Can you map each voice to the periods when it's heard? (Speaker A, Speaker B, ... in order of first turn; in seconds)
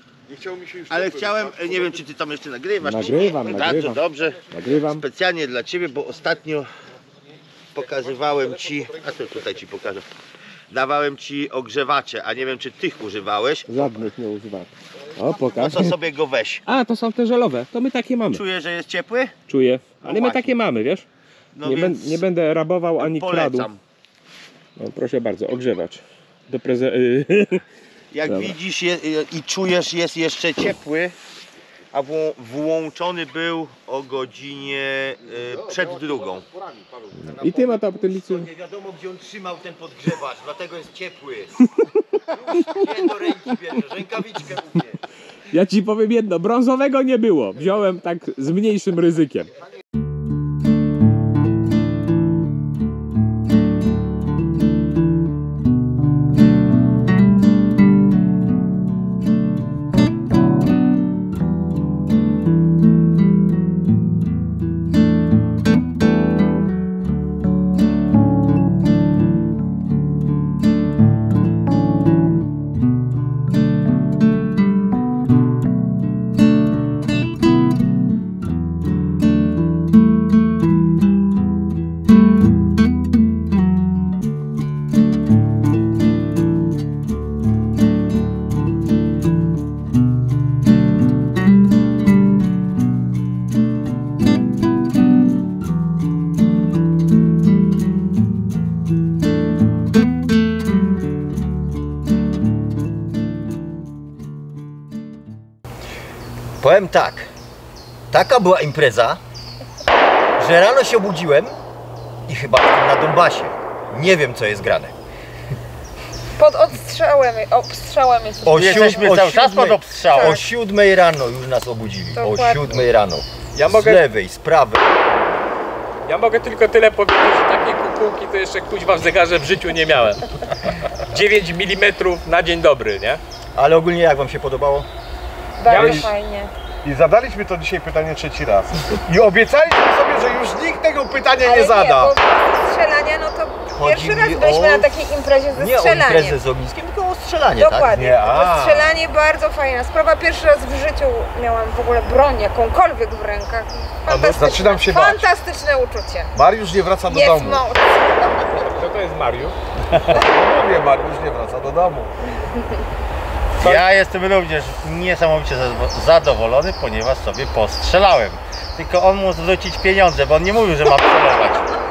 Speaker A: 0.3-2.1, 35.3-37.4, 135.7-136.1, 136.8-142.2, 147.9-148.9, 154.3-155.3, 156.3-157.7, 160.1-162.1
Speaker B: 0.9-6.7, 7.8-10.1, 10.7-14.1, 15.3-16.6, 18.3-19.3, 20.0-20.6, 21.6-22.2, 23.0-23.8, 28.1-31.1, 31.9-36.5, 37.1-41.5, 42.4-45.0, 118.5-120.3, 163.6-171.7
Speaker C: 2.8-5.0, 13.7-16.0, 16.7-18.4, 19.5-21.1, 21.6-23.7, 24.8-27.6, 28.3-28.6, 37.4-38.5, 45.5-49.5, 123.5-124.1, 126.0-130.3, 131.0-133.2, 135.7-136.1, 154.1-154.5, 158.6-159.6
Speaker D: 42.4-43.6, 106.6-107.3, 108.1-109.2, 110.4-111.6, 112.3-115.0, 118.5-125.2, 133.6-134.9, 143.8-145.0, 145.5-147.9
Speaker E: 116.4-119.3, 120.0-120.5, 122.2-122.8, 135.6-136.5, 141.4-146.4, 147.6-156.3, 157.1-158.7